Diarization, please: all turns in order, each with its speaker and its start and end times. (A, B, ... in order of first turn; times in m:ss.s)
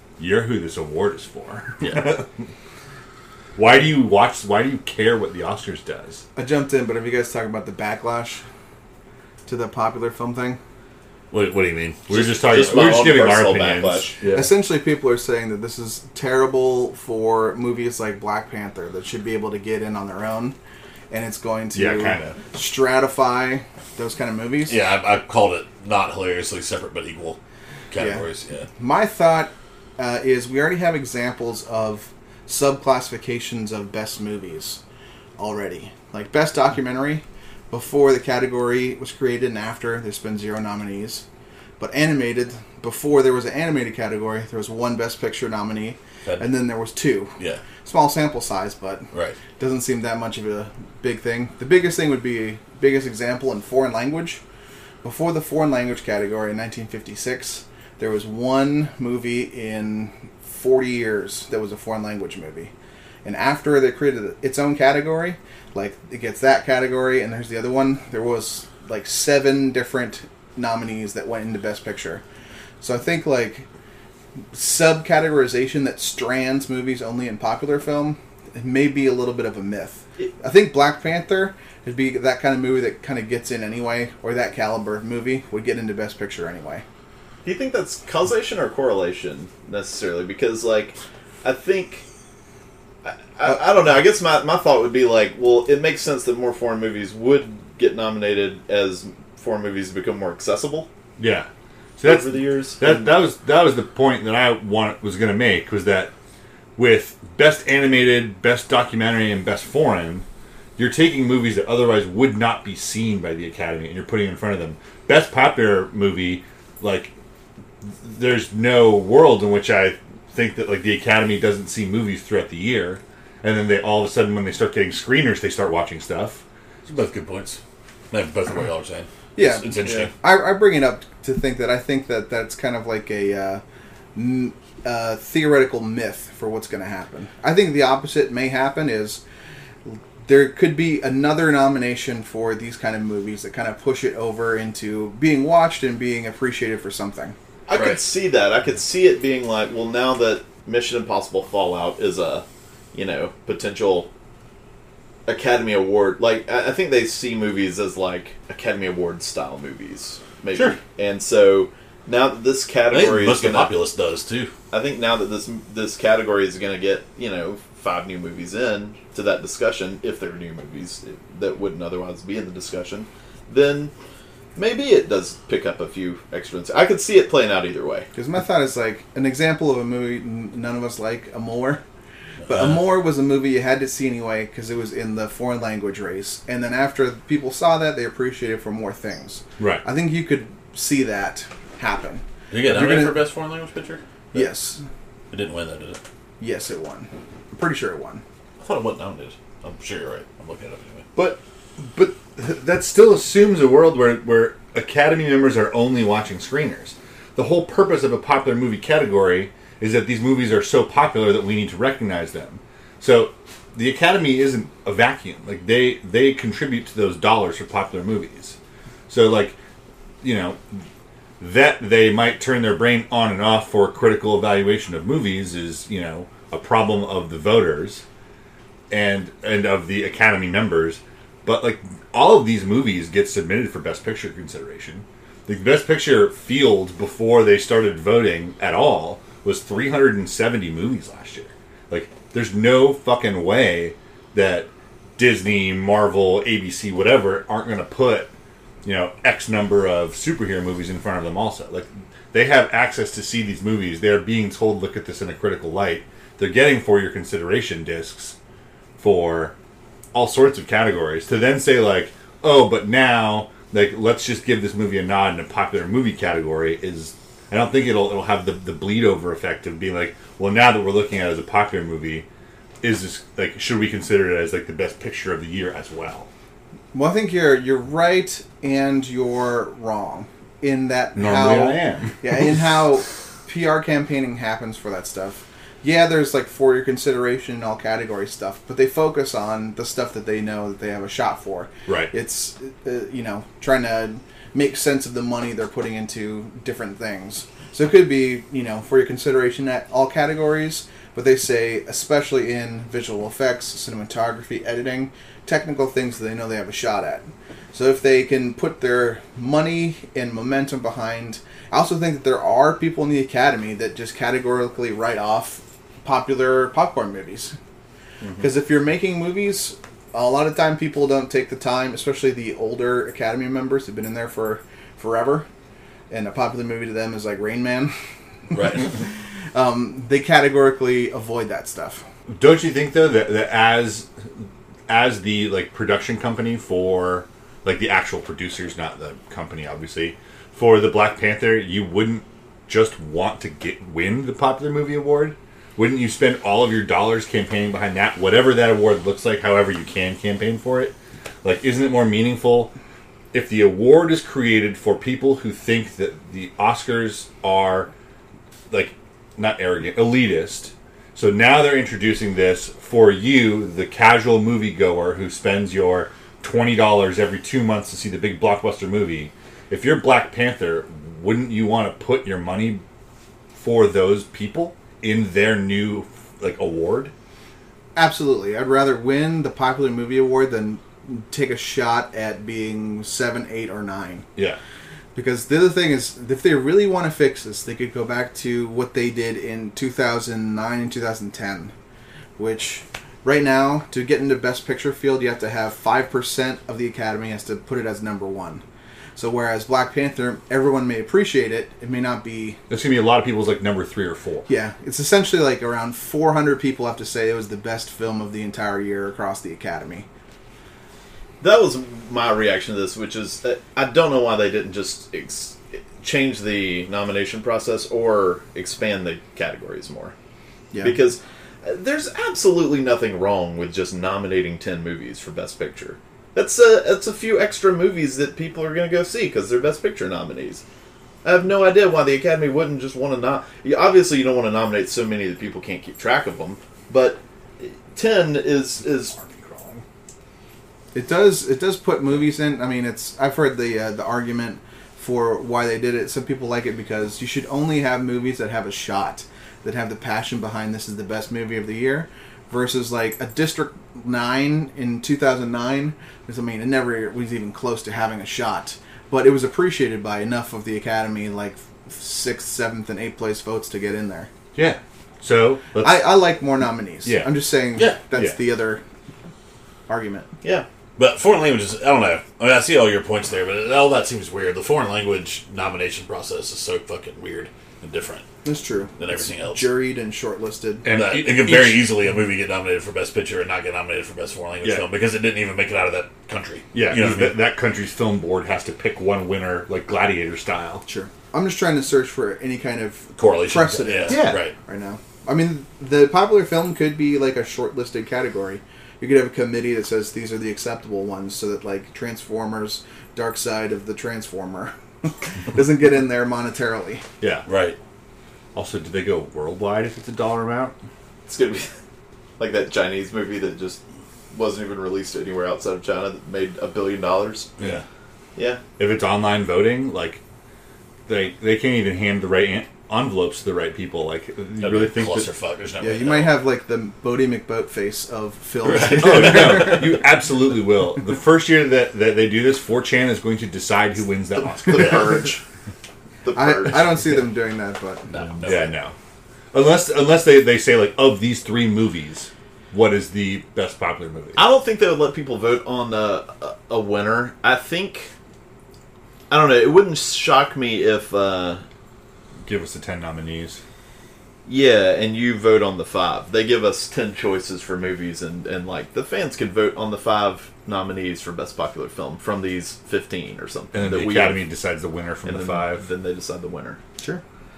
0:00.2-0:02.3 A
0:03.6-0:06.2 A
0:06.4-0:08.4 B
0:09.4-0:10.6 B
0:11.3-0:12.9 C
0:12.1-0:14.5 A
0:12.4-0:14.1 D
0:14.3-0:20.6 B
0:21.1-0:24.8 B
0:21.7-0:22.4 A
0:24.7-0:27.4 C
0:27.9-0:28.7 C
0:27.9-0:28.2 B
0:28.8-0:34.8 B
0:35.4-0:41.2 B
0:41.8-0:54.4 B
0:46.2-0:46.6 C
0:49.1-0:49.4 C
0:55.0-1:02.7 B
1:03.2-1:12.2 B
1:12.8-1:13.6 B
1:14.5-1:26.8 B
1:27.4-1:32.0 D
1:33.0-1:40.9 D
1:41.2-1:46.1 A
1:42.0-1:43.1 D
1:46.8-1:50.2 A
1:50.8-1:57.1 A
1:57.8-2:06.4 A
2:06.9-2:07.6 C
2:08.1-2:10.1 C
2:09.3-2:13.6 B
2:14.1-2:19.2 B
2:19.9-2:27.3 B
2:27.7-2:34.1 D
2:27.7-2:28.0 C
2:35.2-2:43.7 D
2:40.5-2:40.8 C
2:42.9-2:44.5 C
2:44.7-2:53.9 D
2:54.6-2:58.1 D
2:58.1-3:01.8 B
3:02.4-3:02.8 C
3:02.5-3:13.2 B
3:09.6-3:09.8 A
3:12.5-3:14.0 C
3:14.3-3:14.8 B
3:15.3-3:16.0 C
3:16.4-3:18.2 B
3:18.6-3:21.0 C
3:21.1-3:38.6 A
3:39.1-3:39.6 A
3:40.2-3:40.8 A
3:41.4-3:48.0 A
3:48.9-4:08.3 A
4:08.8-4:18.4 A
4:19.0-4:19.6 A
4:20.1-4:32.2 A
4:32.8-4:36.3 A
4:36.9-5:17.6 B
4:41.1-4:42.5 A
4:51.9-4:52.1 A
5:18.2-5:18.5 A
5:18.4-5:25.4 B
5:26.1-5:27.9 B
5:28.5-5:32.0 B
5:28.5-5:28.9 C
5:32.3-5:34.1 A
5:34.9-5:52.7 A
5:53.3-5:57.9 A
5:58.7-6:12.8 A
6:13.5-6:17.1 A
6:18.0-6:24.2 B
6:25.1-6:31.7 B
6:32.4-6:38.6 B
6:39.2-6:42.6 B
6:42.7-6:44.5 A
6:44.5-6:50.0 B
6:51.4-7:00.1 D
7:00.7-7:01.0 B
7:00.8-7:10.6 D
7:11.2-7:19.1 D
7:19.1-7:19.8 A
7:20.9-7:44.3 B
7:44.6-7:46.1 A
7:45.8-7:48.8 B
7:47.0-7:47.3 A
7:48.0-7:48.4 A
7:49.9-7:50.3 B
7:51.0-7:58.2 C
7:58.4-8:00.9 B
7:59.0-7:59.7 C
8:00.8-8:01.9 A
8:00.9-8:07.4 C
8:06.7-8:10.8 A
8:10.9-8:27.0 B
8:13.2-8:14.6 C
8:14.1-8:14.4 A
8:27.2-8:27.4 A
8:27.5-8:27.8 C
8:28.6-8:30.7 A
8:31.3-8:31.7 D
8:32.4-8:33.8 D
8:34.3-8:37.5 D
8:37.6-8:37.8 A
8:38.4-8:38.6 D
8:38.8-8:40.2 A
8:41.1-8:45.3 A
8:44.6-8:46.4 C
8:45.8-8:50.0 B
8:48.6-8:49.8 C
8:48.9-8:55.2 A
8:54.6-8:55.4 D
8:56.2-8:57.1 D
8:56.3-8:58.1 B
8:58.1-8:58.6 C
8:58.1-8:58.7 D
8:58.4-8:58.9 A
8:59.5-9:04.4 A
9:04.4-9:08.1 D
9:09.3-9:11.6 D
9:12.4-9:13.6 A
9:14.4-9:24.5 D
9:23.7-9:25.9 A
9:25.2-9:26.8 D